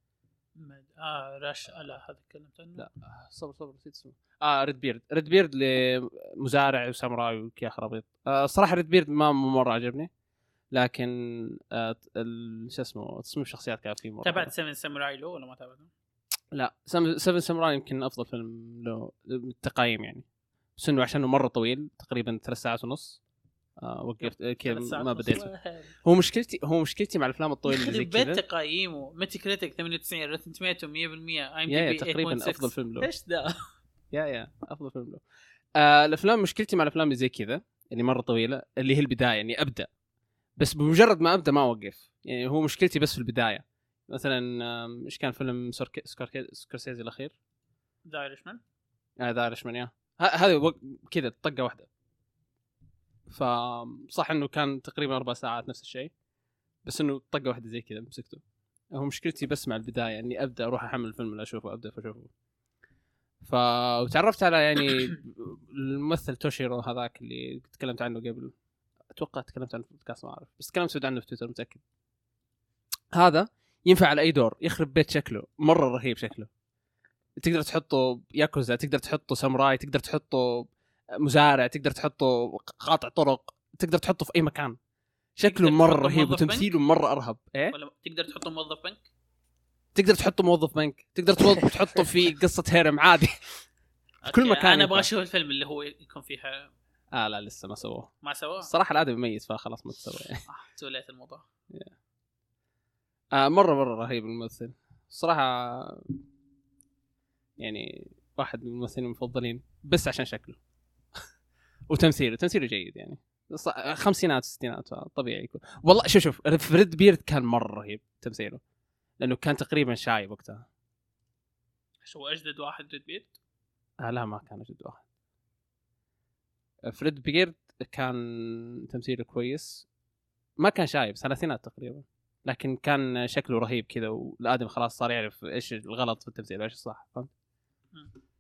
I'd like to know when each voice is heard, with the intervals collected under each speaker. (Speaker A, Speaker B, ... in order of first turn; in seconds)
Speaker A: 0.6-2.9, 14.2-15.9, 24.2-26.0, 27.7-33.6, 48.1-48.6, 85.5-86.7, 87.7-89.0, 94.2-96.7, 98.2-98.7, 100.5-101.4, 122.0-123.3
Speaker B: 2.8-10.1, 10.7-14.5, 16.5-20.2, 20.8-23.2, 23.8-25.5, 26.0-28.4, 31.7-33.1, 34.1-35.2, 35.8-39.9, 40.6-47.4, 49.2-51.9, 53.3-56.1, 56.8-58.4, 58.9-62.3, 63.4-68.5, 69.1-71.8, 73.1-76.5, 77.4-84.8, 85.4-87.8, 90.0-93.6, 94.3-95.1, 97.1-100.4, 103.3-106.2, 107.6-110.6, 111.9-118.6, 119.2-120.7, 124.0-125.0, 126.8-129.9, 130.6-137.3